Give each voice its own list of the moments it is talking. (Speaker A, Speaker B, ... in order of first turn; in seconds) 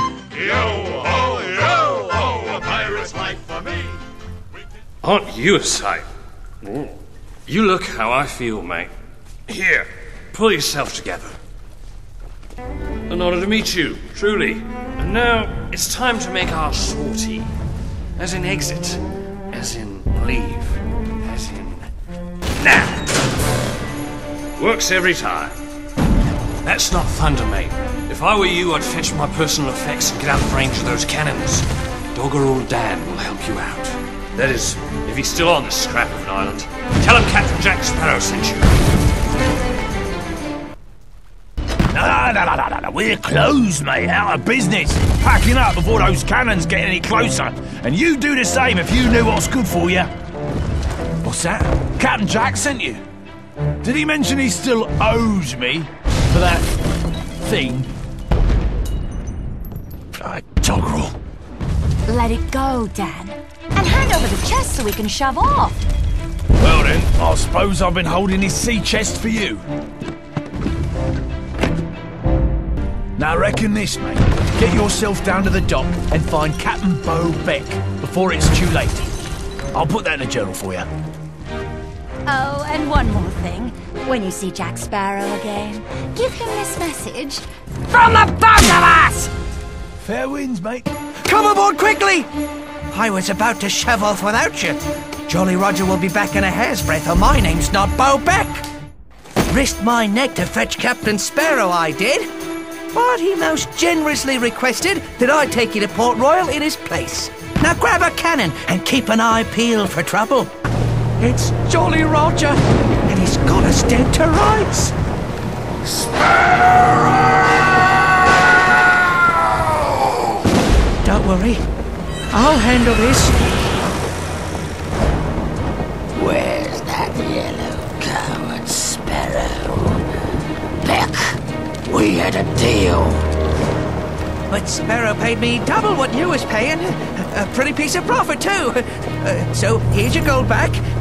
Speaker A: 0.3-3.9
Speaker B: 5.0-6.1, 6.6-6.9, 7.5-8.9, 9.5-11.4, 13.1-17.5, 18.2-21.9, 22.6-23.1, 24.6-25.6, 26.6-38.8
Speaker C: 41.9-50.1, 51.2-53.0, 53.8-56.7, 57.4-57.9, 60.2-61.1, 66.6-69.6, 73.2-79.0, 79.7-80.9, 90.0-90.9
Speaker D: 62.1-65.8, 82.3-89.3
Speaker E: 91.8-92.2, 92.9-94.7, 95.3-98.6, 99.5-102.2, 103.0-110.5, 111.6-112.5, 113.2-114.2, 134.6-140.8
Speaker F: 126.2-130.0, 130.8-133.3